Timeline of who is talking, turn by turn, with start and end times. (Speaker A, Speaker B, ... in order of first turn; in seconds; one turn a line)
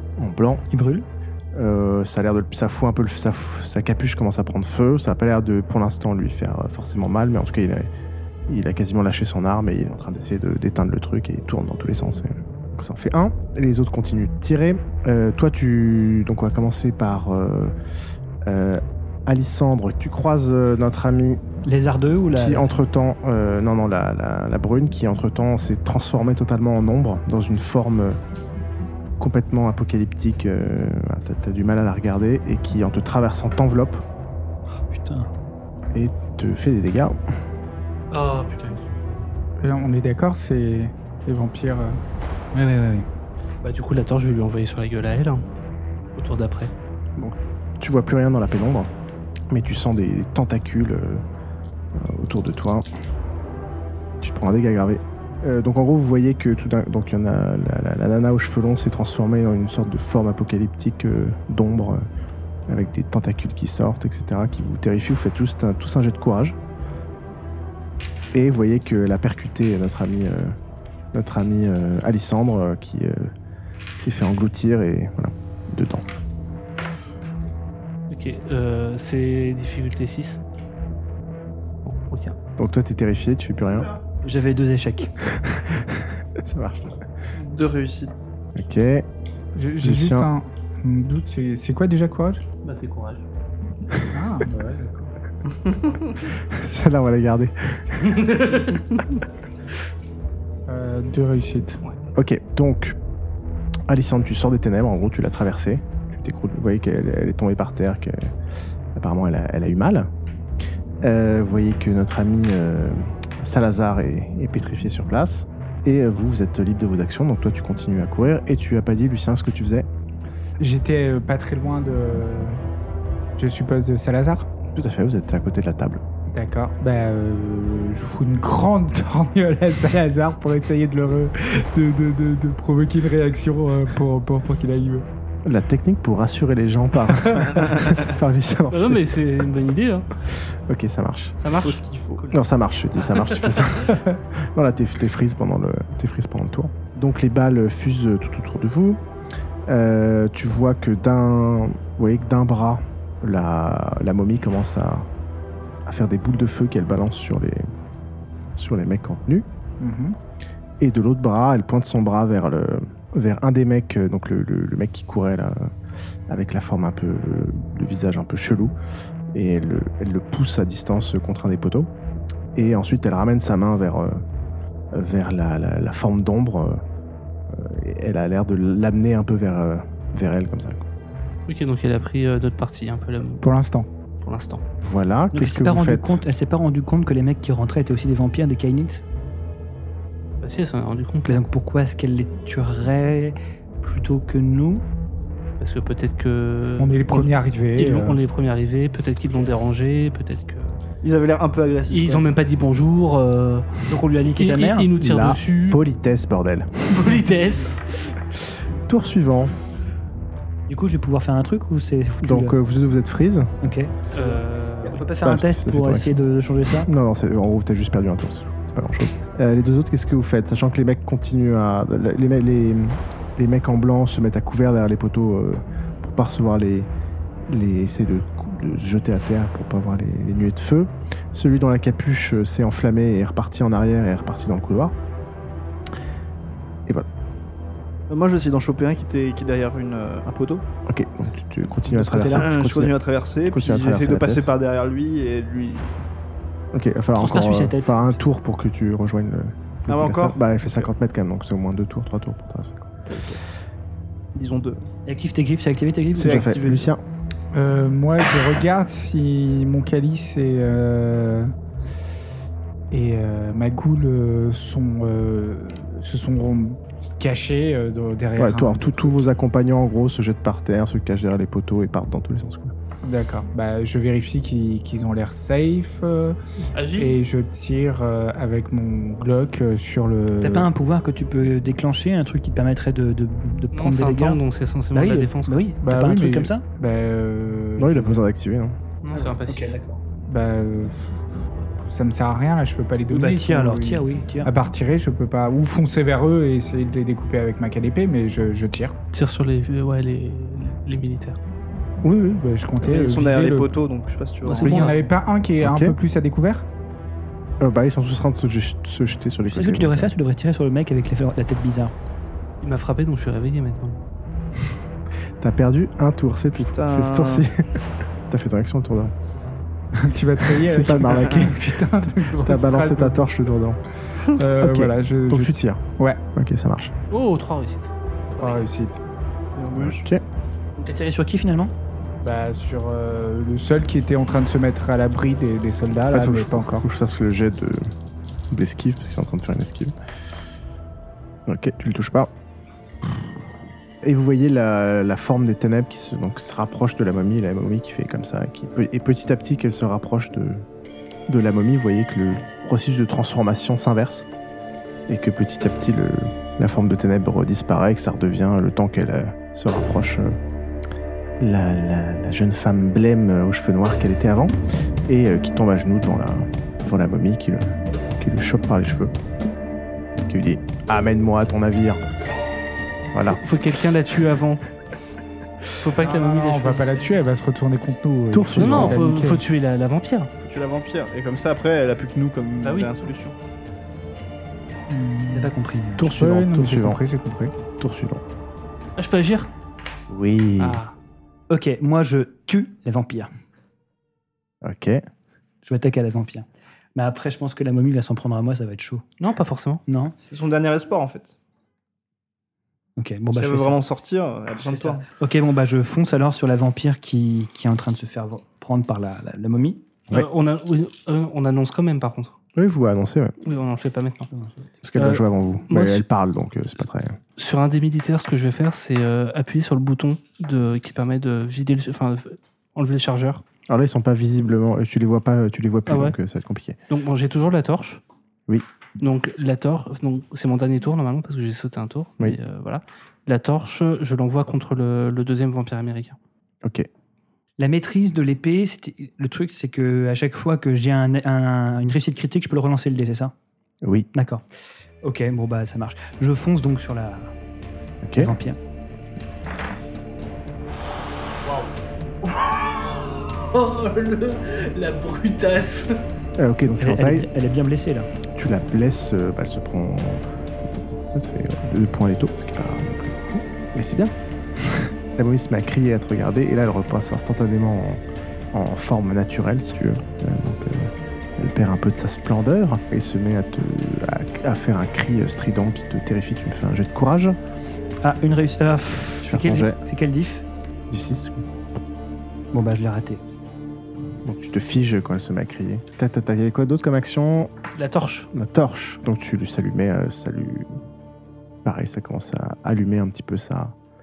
Speaker A: 0.2-0.6
Speaker B: 0.7-1.1
Speaker A: 1.5-7.9
Speaker A: 8.5-17.7
Speaker A: 18.4-21.4
Speaker B: 21.6-22.7
Speaker A: 22.3-28.2
Speaker A: 29.2-34.0
Speaker B: 34.9-35.3
Speaker A: 35.9-37.2
Speaker C: 38.1-38.9
Speaker D: 39.6-42.0
Speaker B: 42.5-43.1
Speaker C: 43.6-45.4
Speaker C: 46.1-46.7
Speaker A: 47.2-48.9
Speaker A: 49.5-51.2
Speaker A: 51.9-52.9
Speaker A: 54.2-62.0
Speaker A: 62.7-66.6
Speaker A: 68.3-70.5
Speaker A: 71.1-73.3
Speaker A: 74.0-76.1
Speaker C: 78.1-80.4
Speaker C: 81.8-82.3
Speaker A: 82.6-83.9
Speaker B: 84.2-85.1
Speaker A: 85.3-87.0
Speaker E: 87.3-88.2
Speaker A: 88.5-89.1
Speaker D: 89.5-92.4
Speaker A: 89.8-90.3
Speaker C: 92.6-93.2
Speaker D: 94.1-95.1
Speaker A: 96.3-98.4
Speaker C: 98.1-98.8
Speaker D: 100.7-101.8
Speaker A: 102.1-103.0
Speaker A: 103.9-108.3
Speaker A: 108.9-110.1
Speaker A: 111.0-119.9
Speaker D: 120.6-122.6
Speaker D: 123.4-124.5
Speaker A: 124.7-126.0
Speaker D: 126.3-135.1
Speaker A: 135.4-139.0
Speaker C: 138.7-140.2
Speaker A: 140.3-141.4
Speaker C: 141.4-142.3
Speaker E: 141.5-142.3
Speaker A: 142.3-149.0
Speaker A: 149.7-155.1
Speaker A: 155.8-157.6
Speaker A: 158.5-159.5
Speaker D: 159.8-160.2
Speaker A: 160.8-165.7
Speaker A: 166.3-168.7
Speaker A: 169.3-171.9
Speaker A: 172.5-174.2
Speaker A: 174.9-176.8
Speaker A: 177.5-180.8
Speaker C: 181.5-183.5
Speaker D: 183.4-183.9
Speaker C: 184.2-184.6
Speaker A: 184.8-186.2
Speaker B: 185.3-189.0
Speaker C: 190.4-191.4
Speaker B: 191.2-194.8
Speaker C: 195.6-200.8
Speaker D: 196.8-198.2
Speaker E: 201.0-202.3
Speaker C: 201.9-203.7
Speaker B: 203.9-204.9
Speaker C: 204.3-205.8
Speaker A: 205.0-207.2
Speaker C: 206.9-208.0
Speaker A: 208.8-209.5
Speaker B: 210.7-212.5
Speaker A: 212.2-213.5
Speaker B: 213.6-216.9
Speaker C: 214.1-215.1
Speaker A: 215.2-216.2
Speaker A: 216.8-226.9
Speaker A: 227.5-234.9
Speaker E: 238.1-240.6
Speaker A: 240.8-242.9
Speaker B: 241.9-242.5
Speaker E: 242.1-246.0
Speaker A: 243.4-244.5
Speaker A: 246.7-253.1
Speaker B: 247.1-248.2
Speaker E: 249.9-250.9
Speaker E: 253.1-253.4
Speaker E: 254.3-254.8
Speaker B: 255.1-256.5
Speaker E: 256.1-256.9
Speaker A: 256.1-257.0
Speaker D: 257.5-261.5
Speaker D: 262.9-269.2
Speaker A: 268.4-272.7
Speaker D: 273.0-276.4
Speaker C: 276.7-277.2
Speaker D: 276.9-280.7
Speaker B: 280.4-284.4
Speaker C: 283.7-285.7
Speaker B: 284.9-286.6
Speaker D: 285.8-288.2
Speaker A: 287.8-288.8
Speaker C: 289.0-289.8
Speaker B: 289.1-290.0
Speaker D: 290.3-291.2
Speaker D: 291.7-298.9
Speaker B: 293.1-294.5
Speaker C: 299.1-301.4
Speaker D: 302.0-303.7
Speaker E: 302.8-304.9
Speaker C: 304.4-305.0
Speaker D: 304.6-306.6
Speaker B: 304.6-304.9
Speaker A: 305.6-306.0
Speaker A: 307.6-310.1
Speaker B: 309.5-311.9
Speaker C: 312.6-314.0
Speaker A: 315.4-317.6
Speaker E: 316.6-317.5
Speaker A: 318.3-319.1
Speaker D: 320.0-323.3
Speaker A: 320.6-323.8
Speaker D: 324.1-326.2
Speaker A: 324.6-326.9
Speaker C: 327.1-328.6
Speaker D: 328.4-328.9
Speaker E: 329.5-330.0
Speaker A: 329.7-330.2
Speaker B: 330.8-331.7
Speaker D: 332.2-336.8
Speaker A: 336.1-337.9
Speaker A: 338.5-339.9
Speaker A: 341.4-342.3
Speaker A: 344.0-350.6
Speaker A: 351.3-354.2
Speaker A: 355.1-360.4
Speaker A: 361.4-369.1
Speaker A: 370.2-372.0
Speaker A: 373.1-373.4
Speaker C: 373.2-374.6
Speaker C: 375.8-377.1
Speaker D: 376.0-379.4
Speaker A: 378.3-379.0
Speaker C: 378.5-380.3
Speaker E: 380.4-383.3
Speaker C: 382.6-382.9
Speaker D: 384.9-385.5
Speaker B: 385.3-386.2
Speaker A: 386.0-387.0
Speaker D: 386.1-387.5
Speaker A: 387.7-388.2
Speaker C: 389.0-389.5
Speaker A: 390.1-390.8
Speaker C: 390.6-390.9
Speaker B: 391.5-393.3
Speaker A: 394.6-395.0
Speaker B: 395.6-399.0
Speaker C: 399.2-399.8
Speaker B: 399.9-400.1
Speaker E: 400.3-401.4
Speaker B: 403.0-403.8
Speaker E: 403.3-405.0
Speaker B: 404.6-409.8
Speaker C: 410.1-412.3
Speaker A: 412.5-413.3
Speaker C: 413.4-414.3
Speaker A: 414.8-417.2
Speaker C: 414.9-416.0
Speaker C: 417.4-423.4
Speaker A: 423.7-426.8
Speaker C: 425.9-426.1
Speaker C: 426.9-428.0
Speaker C: 429.0-436.2
Speaker A: 436.6-436.9
Speaker B: 437.6-443.3
Speaker A: 443.8-444.1
Speaker B: 444.1-444.4
Speaker B: 445.0-447.3
Speaker A: 448.0-448.4
Speaker B: 448.2-448.6
Speaker C: 452.2-456.0
Speaker A: 456.4-457.3
Speaker B: 456.8-458.1
Speaker A: 458.3-468.0
Speaker A: 468.5-477.4
Speaker B: 478.0-480.4
Speaker A: 479.2-479.8
Speaker A: 480.9-481.4
Speaker B: 482.5-483.2
Speaker A: 484.2-487.5
Speaker C: 487.7-488.3
Speaker A: 488.3-490.8
Speaker A: 491.6-493.7